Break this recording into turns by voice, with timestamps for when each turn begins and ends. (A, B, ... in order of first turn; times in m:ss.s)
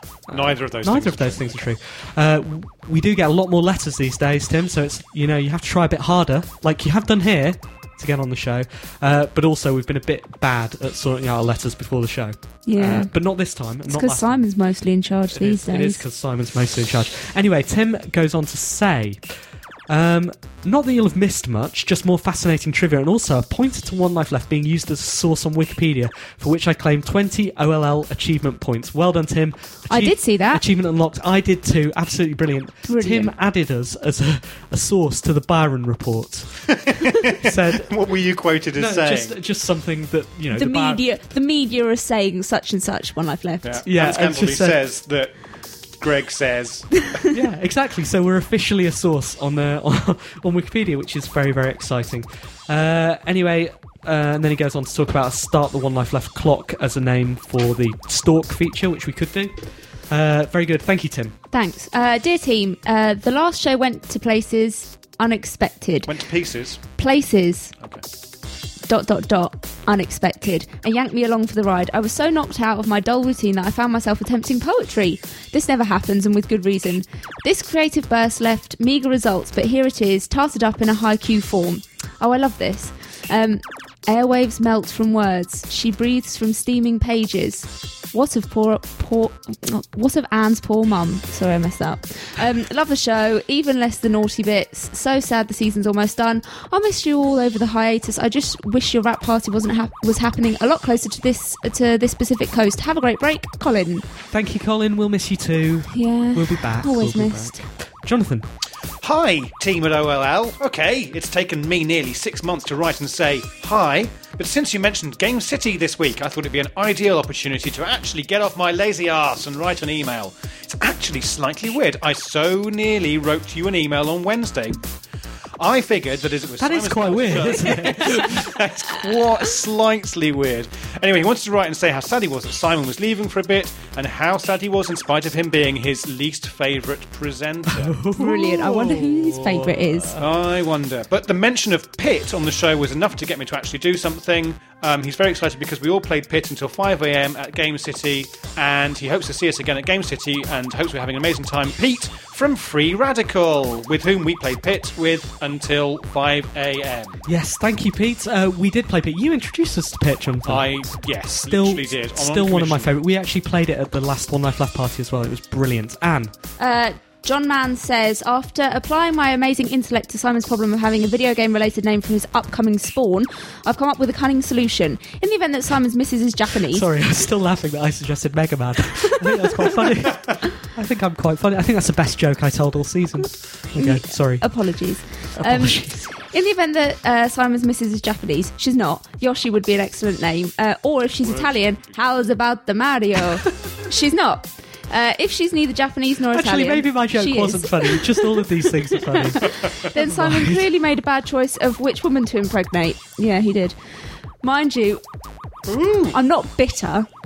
0:00.3-0:14.4 A
0:00.3-0:01.6 B
0:12.6-0:13.1 C
0:13.9-0:16.0 C
0:15.3-0:19.2 A
0:19.9-0:36.7 A
0:29.9-0:30.6 C
0:32.8-0:33.3 C
0:36.7-0:39.3 B
0:37.3-0:37.9 A
0:38.7-0:41.0 A
0:40.5-0:43.8 C
0:43.6-0:45.3 B
0:43.8-0:44.8 A
0:46.0-0:47.1 B
0:47.3-1:01.4 A
1:01.5-1:06.1 C
1:06.0-1:06.8 B
1:07.0-1:07.7 C
1:08.9-1:44.0 C
1:44.3-1:48.5 A
1:45.9-1:47.7 C
1:49.0-2:04.8 B
2:05.6-2:18.0 B
2:06.6-2:08.6 A
2:17.7-2:20.2 A
2:18.2-2:20.2 C
2:20.2-2:37.2 B
2:37.2-2:40.8 A
2:40.4-2:42.9 B
2:41.4-2:46.3 A
2:46.6-2:56.9 C
2:56.7-3:04.7 A
3:03.8-3:23.8 C
3:05.3-3:06.1 A
3:11.2-3:12.0 B
3:16.3-3:20.6 A
3:24.4-3:25.0 C
3:25.7-3:26.2 B
3:26.1-3:27.1 C